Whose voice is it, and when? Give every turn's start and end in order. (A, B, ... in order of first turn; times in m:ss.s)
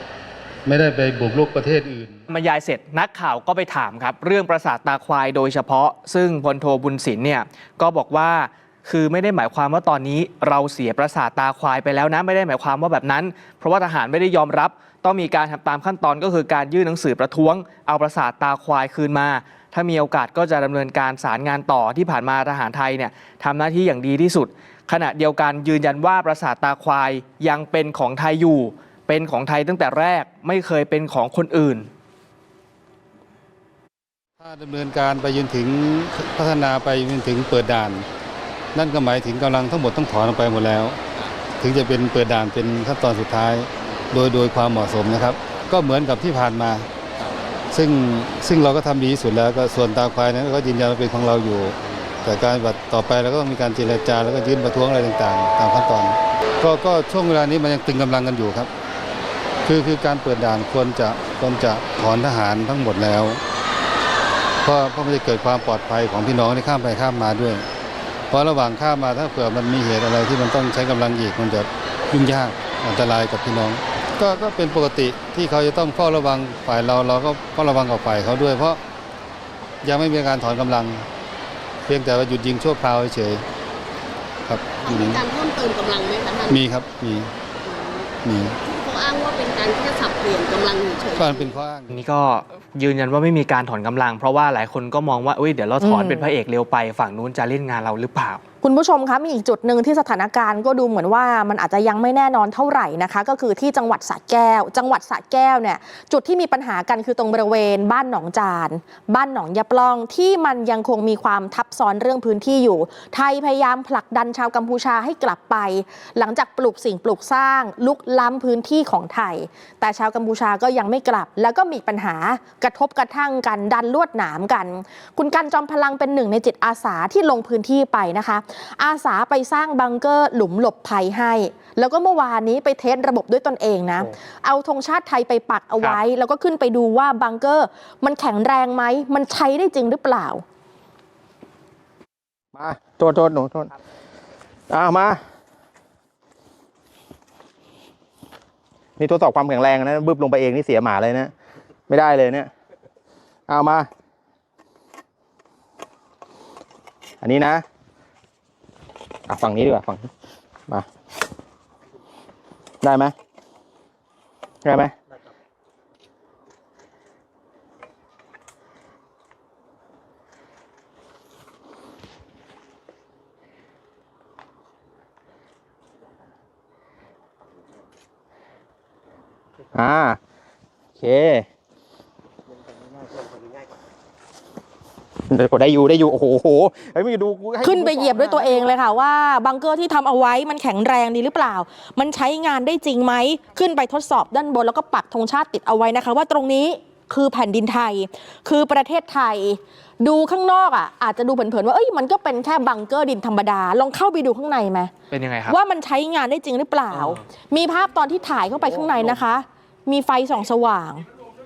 0:00.7-0:02.2 A
0:02.3-0:31.9 B
0:34.4-0:38.1 A
0:38.8-0:41.0 A
0:41.6-0:46.9 A
0:47.7-0:58.7 A
0:59.6-1:03.4 A
1:04.6-1:07.6 A
1:08.3-1:18.8 A
1:19.8-1:21.1 A
1:21.9-1:23.4 A
1:24.5-1:25.2 A
1:24.8-1:26.6 C
1:26.5-1:27.3 A
1:27.6-1:28.1 C
1:28.2-1:28.6 A
1:28.6-1:31.6 C
1:31.2-1:32.0 A
1:31.9-1:38.4 B
1:35.8-1:36.3 D
1:38.6-2:20.4 D
2:22.5-2:23.7 E
2:24.7-2:25.2 E
2:29.0-2:31.3 E
2:31.9-2:32.5 E
2:33.5-2:33.9 E
2:37.2-2:37.6 E
2:39.3-2:40.1 E
2:42.8-2:43.1 E
2:44.6-2:44.9 E
2:59.8-3:00.2 E
3:01.0-3:01.5 E
3:05.3-3:08.6 E
3:07.6-3:24.9 D
3:25.1-3:25.6 B
3:25.5-3:31.0 D
3:26.9-3:27.2 B